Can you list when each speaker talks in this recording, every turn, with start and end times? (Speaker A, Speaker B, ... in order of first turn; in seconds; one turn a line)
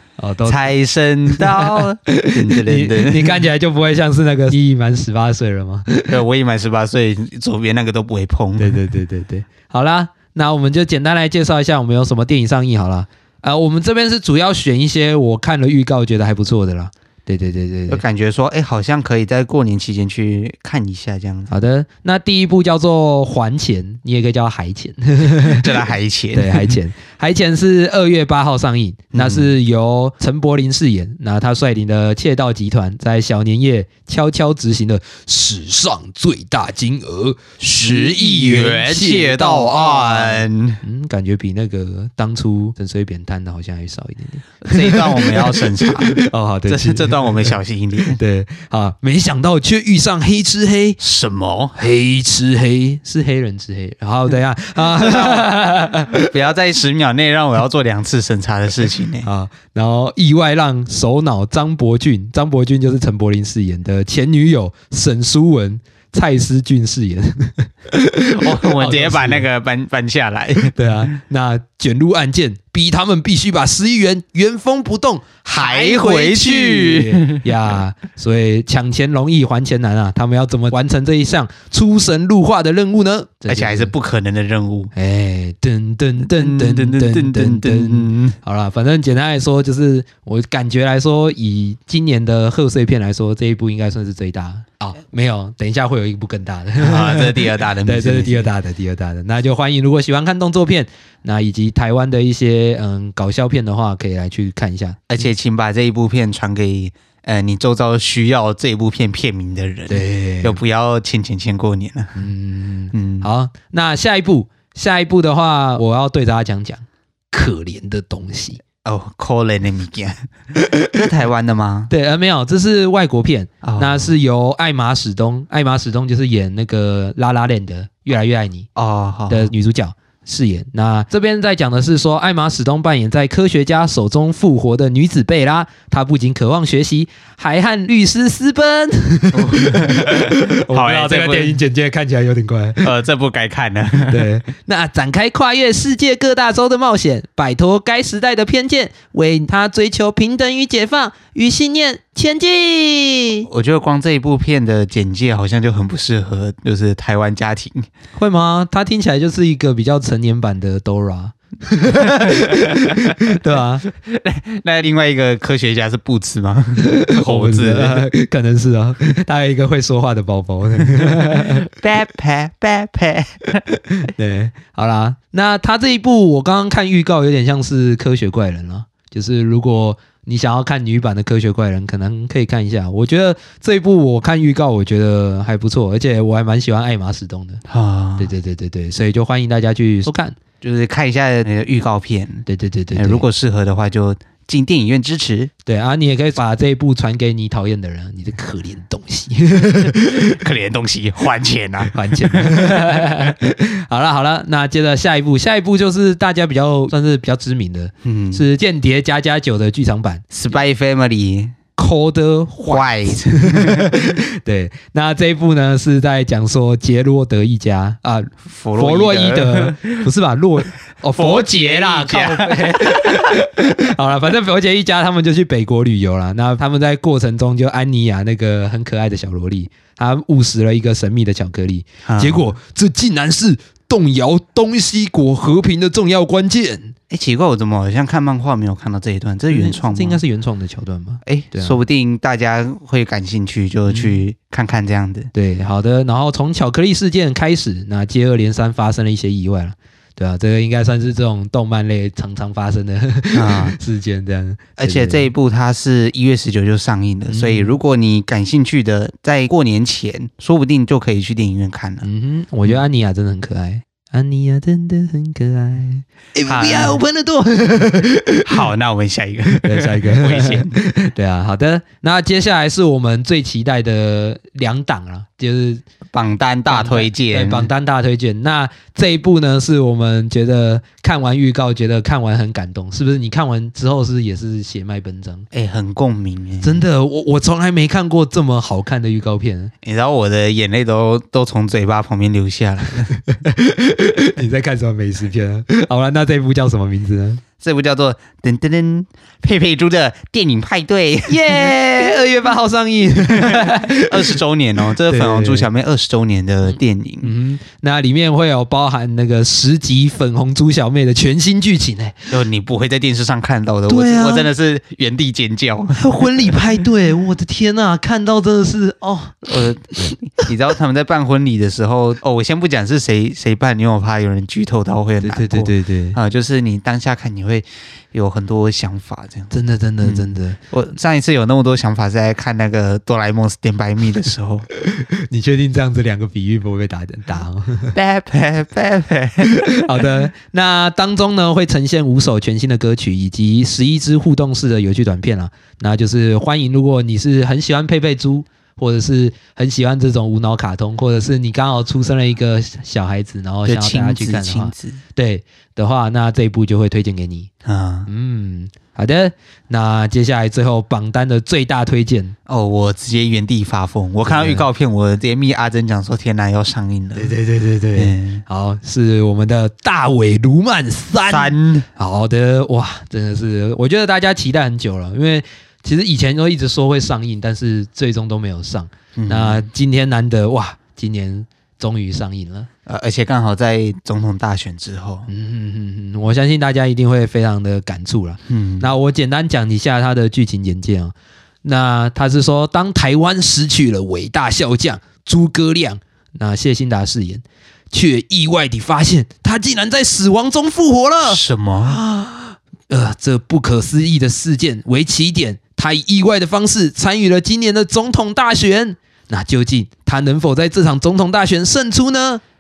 Speaker A: 0.2-0.7
Speaker B: 0.5-3.4
Speaker A: 1.3-6.2
Speaker B: 6.1-8.8
Speaker A: 8.6-18.0
Speaker B: 17.9-21.5
Speaker A: 21.5-25.7
Speaker B: 25.4-26.8
Speaker A: 26.3-47.5
Speaker B: 29.1-29.5
Speaker B: 37.6-40.8
Speaker B: 44.6-48.2
Speaker A: 48.1-51.0
Speaker B: 51.0-51.8
Speaker A: 51.8-56.3
Speaker B: 54.9-55.5
Speaker B: 56.1-59.3
Speaker A: 59.2-69.5
Speaker B: 68.3-70.7
Speaker A: 70.6-83.9
Speaker B: 75.5-77.5
Speaker B: 83.5-84.9
Speaker A: 84.9-105.0
Speaker B: 86.2-88.3
Speaker B: 96.8-98.5
Speaker B: 105.1-112.1
Speaker A: 109.9-110.6
Speaker A: 112.1-118.6
Speaker B: 112.9-113.3
Speaker B: 118.8-120.3
Speaker A: 120.5-120.9
Speaker B: 120.9-121.9
Speaker A: 121.9-128.7
Speaker B: 123.6-124.1
Speaker B: 128.8-129.5
Speaker A: 129.3-142.9
Speaker B: 139.3-141.6
Speaker B: 142.8-144.3
Speaker A: 144.1-153.5
Speaker B: 153.5-157.9
Speaker A: 158.2-163.8
Speaker B: 161.9-163.1
Speaker B: 164.0-168.1
Speaker A: 166.8-171.6
Speaker B: 171.0-173.6
Speaker A: 174.0-187.6
Speaker B: 187.7-188.3
Speaker A: 188.2-190.3
Speaker B: 190.6-195.5
Speaker A: 192.5-193.2
Speaker A: 195.6-200.4
Speaker B: 200.2-203.1
Speaker A: 201.9-210.2
Speaker B: 208.0-208.4
Speaker B: 210.3-211.5
Speaker A: 211.8-236.9
Speaker B: 212.6-213.9
Speaker B: 218.4-220.0
Speaker B: 221.2-223.4
Speaker B: 232.1-232.4
Speaker B: 237.1-240.2
Speaker A: 239.5-241.8
Speaker B: 241.2-245.3
Speaker A: 243.9-244.2
Speaker A: 245.3-255.3
Speaker B: 253.3-253.8
Speaker B: 254.8-262.1
Speaker A: 257.3-257.7
Speaker A: 262.0-268.7
Speaker B: 266.4-267.0
Speaker B: 268.4-270.8
Speaker A: 269.6-275.8
Speaker B: 276.1-277.7
Speaker A: 276.7-285.5
Speaker B: 285.5-286.8
Speaker A: 286.6-289.7
Speaker B: 289.8-293.1
Speaker A: 293.3-297.4
Speaker B: 297.6-301.7
Speaker A: 301.3-304.4
Speaker B: 303.4-307.3
Speaker A: 305.1-305.7
Speaker A: 306.6-312.3
Speaker B: 312.3-316.5
Speaker A: 313.9-314.5
Speaker A: 315.9-320.1
Speaker B: 319.5-334.6
Speaker A: 325.2-326.2
Speaker A: 329.5-330.6
Speaker A: 334.8-337.9
Speaker B: 337.9-339.5
Speaker A: 339.4-357.5
Speaker B: 353.6-355.0
Speaker B: 357.6-358.1
Speaker A: 358.1-362.3
Speaker B: 362.5-367.3
Speaker A: 364.3-364.7
Speaker A: 367.1-382.7
Speaker B: 367.9-368.4
Speaker B: 371.3-371.9
Speaker B: 379.1-379.6
Speaker B: 382.9-385.3
Speaker A: 385.3-412.4
Speaker B: 388.5-388.9
Speaker B: 401.3-402.0